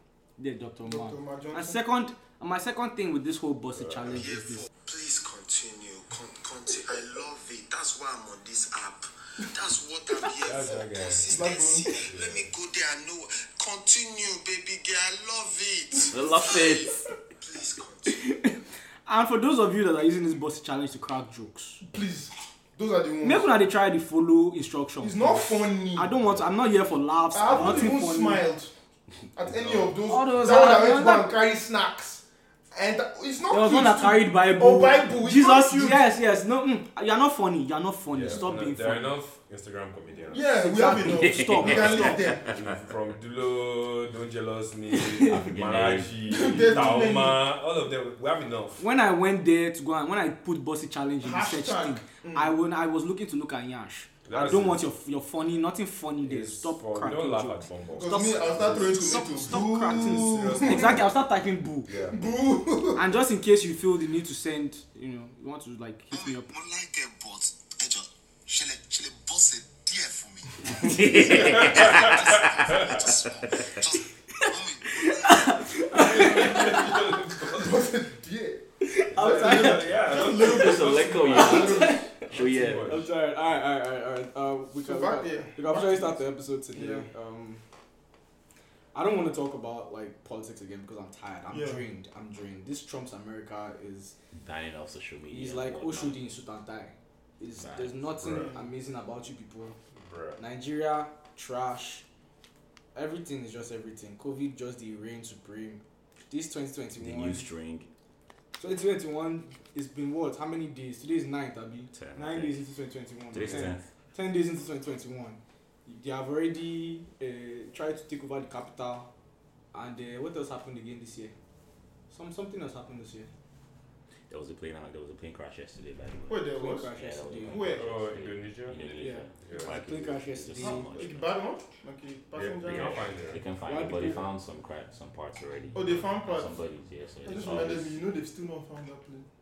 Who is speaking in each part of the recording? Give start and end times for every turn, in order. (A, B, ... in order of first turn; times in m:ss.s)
0:00.4-0:04.7 A
0:00.8-0:01.8 B
0:03.8-0:04.2 C
0:04.6-0:16.3 D
0:10.4-0:12.5 C
0:11.3-0:11.9 B
0:11.4-0:12.0 A
0:16.1-0:17.0 E
0:17.4-0:18.2 D
0:18.1-0:21.8 A
0:21.8-0:23.5 B
0:23.2-0:28.4 A
0:25.0-0:26.1 B
0:27.3-0:28.7 B
0:29.4-0:36.1 B
0:29.4-0:30.5 C
0:30.1-0:31.3 A
0:33.5-0:39.1 A
0:38.1-0:40.5 C
0:40.3-0:42.5 B
0:40.5-0:42.3 A
0:41.0-0:42.7 E
0:41.6-0:48.8 C
0:45.2-0:46.8 E
0:46.3-0:47.4 B
0:48.8-1:02.1 A
0:51.2-0:52.5 B
0:54.3-0:54.8 C
0:56.2-0:59.4 C
0:57.9-1:01.0 B
0:59.9-1:01.0 C
1:01.9-1:02.2 C
1:02.1-1:03.1 B
1:03.0-1:06.6 A
1:06.2-1:10.6 D
1:10.7-1:13.8 E
1:11.2-1:13.0 C
1:12.9-1:15.6 D
1:14.9-1:17.0 A
1:15.9-1:17.9 C
1:16.2-1:22.0 B
1:18.8-1:19.9 A
1:19.2-1:23.1 C
1:20.0-1:23.1 E
1:21.3-1:22.1 A
1:22.8-1:27.6 A
1:24.8-1:27.1 B
1:28.9-1:34.1 A
1:31.5-1:31.9 B
1:34.4-1:36.2 E
1:35.3-1:39.8 A
1:37.6-1:38.1 E
1:38.2-1:38.5 C
1:38.2-1:38.6 B
1:40.0-1:40.4 C
1:40.4-1:42.0 A
1:43.0-1:47.5 A
1:47.0-1:47.9 E
1:48.6-1:59.1 A
1:51.9-1:52.6 E
1:53.3-1:53.9 E
1:59.7-2:01.3 A
2:02.1-2:03.3 A
2:04.3-2:11.3 E
2:06.3-2:07.9 B
2:06.5-2:07.7 A
2:07.8-2:09.7 C
2:08.9-2:10.9 A
2:10.6-2:13.1 B
2:12.4-2:13.4 C
2:12.6-2:18.1 E
2:13.6-2:14.3 A
2:15.7-2:16.5 B
2:17.2-2:19.3 B